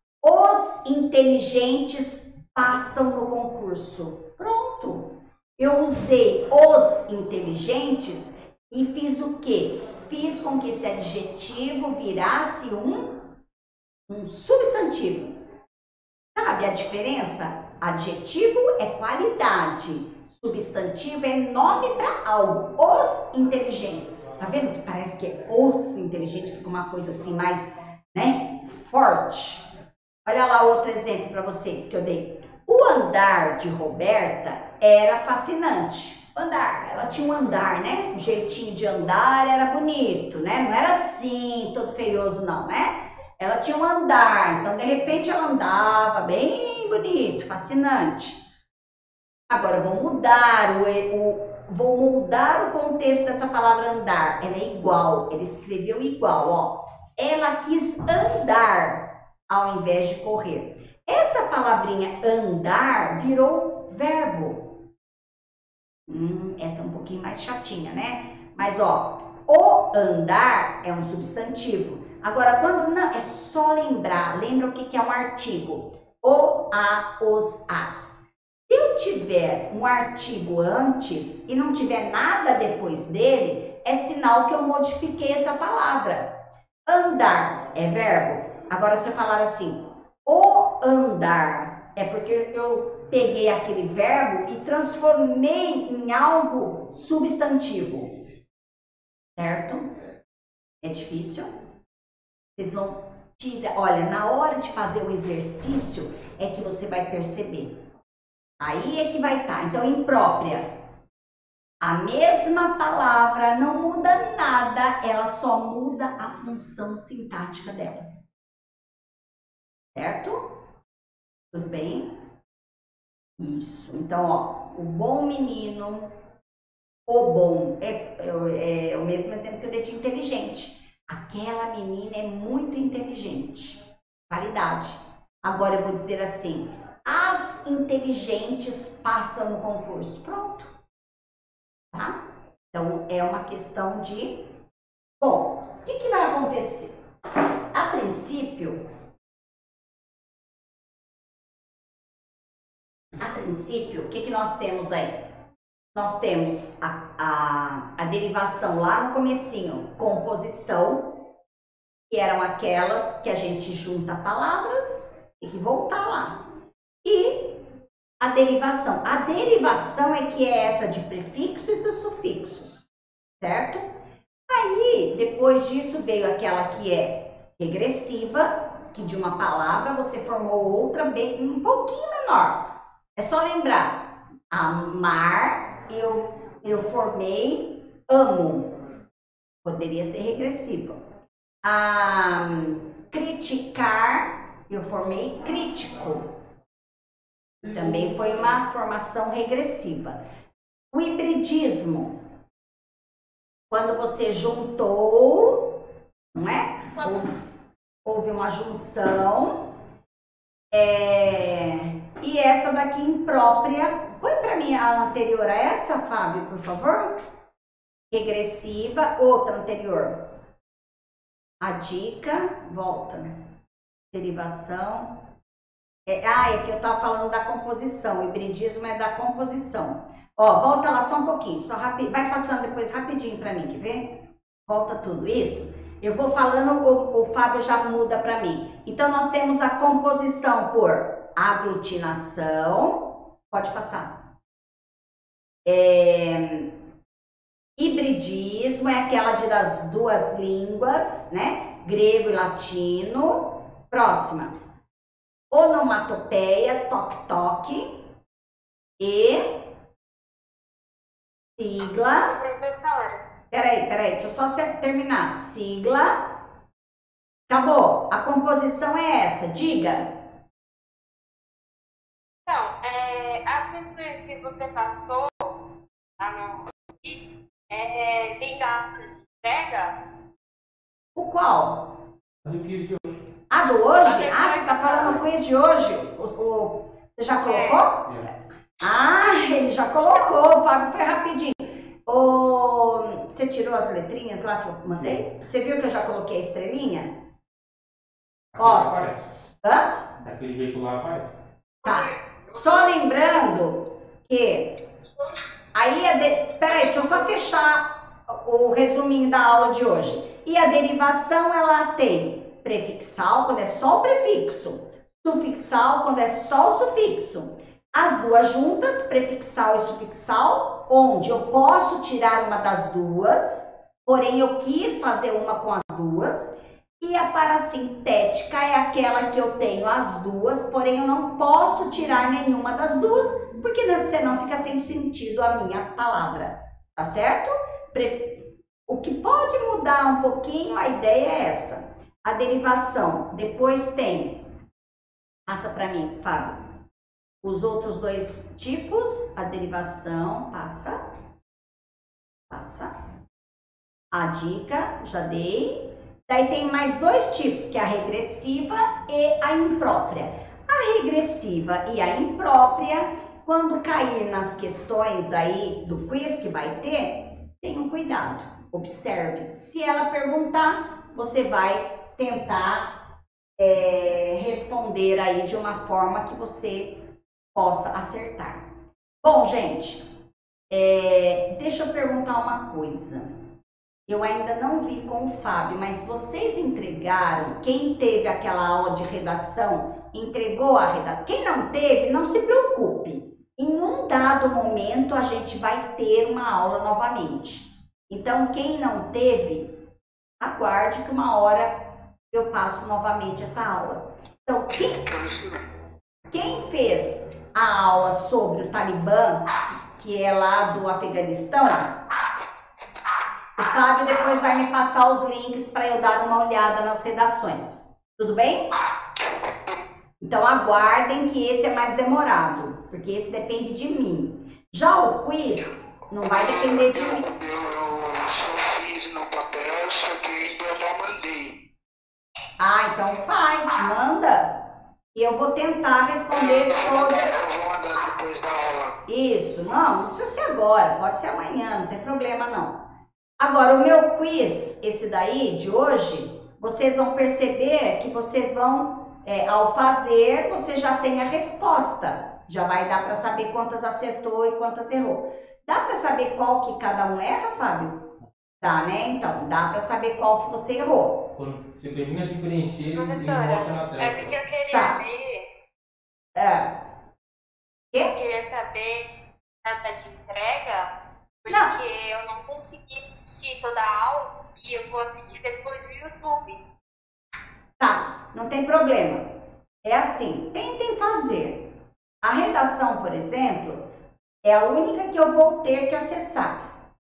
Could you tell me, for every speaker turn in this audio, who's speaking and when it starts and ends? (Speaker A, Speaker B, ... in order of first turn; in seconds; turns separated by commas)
Speaker A: 0.2-13.2, Speaker A: 14.1-15.3, Speaker A: 16.4-29.6, Speaker A: 30.2-48.4, Speaker A: 49.5-64.8, Speaker A: 66.1-86.3, Speaker A: 86.9-98.2, Speaker A: 99.4-99.9, Speaker A: 100.8-101.5, Speaker A: 102.6-107.7, Speaker A: 108.6-110.7, Speaker A: 111.8-118.1, Speaker A: 119.9-120.5, Speaker A: 121.5-122.1, Speaker A: 123.4-126.1, Speaker A: 127.1-140.7, Speaker A: 141.9-142.2, Speaker A: 142.7-144.4, Speaker A: 145.2-146.9, Speaker A: 147.7-148.8, Speaker A: 153.2-155.2, Speaker A: 155.9-161.2, Speaker A: 162.1-166.4, Speaker A: 167.0-167.6, Speaker A: 168.2-172.8, Speaker A: 173.4-173.8, Speaker A: 174.5-182.6, Speaker A: 183.2-188.7, Speaker A: 189.6-190.9, Speaker A: 191.6-196.3, Speaker B: 197.6-198.6, Speaker A: 197.7-200.2, Speaker A: 200.9-202.1, Speaker A: 203.7-205.7, Speaker A: 206.3-207.3, Speaker A: 208.1-209.6, Speaker A: 210.7-217.2, Speaker A: 218.1-220.2, Speaker A: 221.6-223.4, Speaker A: 224.1-225.2, Speaker A: 226.1-244.1, Speaker A: 245.7-246.7, Speaker A: 247.8-254.5, Speaker A: 255.5-257.9, Speaker A: 259.0-259.6, Speaker A: 261.6-262.4, Speaker C: 262.2-263.2, Speaker A: 263.5-266.2, Speaker A: 267.5-270.1, Speaker C: 272.4-275.6, Speaker C: 276.2-279.9, Speaker A: 281.1-281.9, Speaker B: 282.4-283.2, Speaker A: 283.5-288.1, Speaker C: 284.0-285.3, Speaker C: 287.4-287.9, Speaker A: 288.8-297.1, Speaker B: 298.5-299.3, Speaker A: 298.6-299.9, Speaker B: 300.2-301.4, Speaker A: 301.8-304.7, Speaker A: 305.7-344.4, Speaker A: 345.5-346.6, Speaker A: 347.4-351.0, Speaker A: 352.5-352.9, Speaker A: 354.1-372.9, Speaker A: 373.6-378.6, Speaker A: 379.2-380.0, Speaker A: 380.7-383.3, Speaker A: 384.1-399.7, Speaker A: 400.4-401.8, Speaker A: 402.3-405.1, Speaker D: 404.8-405.6, Speaker A: 406.3-412.0, Speaker A: 413.6-418.7, Speaker D: 419.2-419.8, Speaker A: 420.2-427.3, Speaker D: 426.2-431.6, Speaker A: 432.6-434.6, Speaker A: 435.1-437.4, Speaker D: 436.3-438.9, Speaker A: 439.1-442.8, Speaker A: 443.4-458.0, Speaker A: 458.6-461.2, Speaker B: 461.4-464.3, Speaker C: 462.9-465.5, Speaker A: 464.7-465.0, Speaker A: 466.3-466.7, Speaker C: 468.1-469.1, Speaker C: 469.6-470.9, Speaker C: 471.4-476.6, Speaker A: 471.5-471.7, Speaker A: 477.8-479.2, Speaker A: 479.8-481.6, Speaker A: 482.2-483.8, Speaker A: 484.4-486.7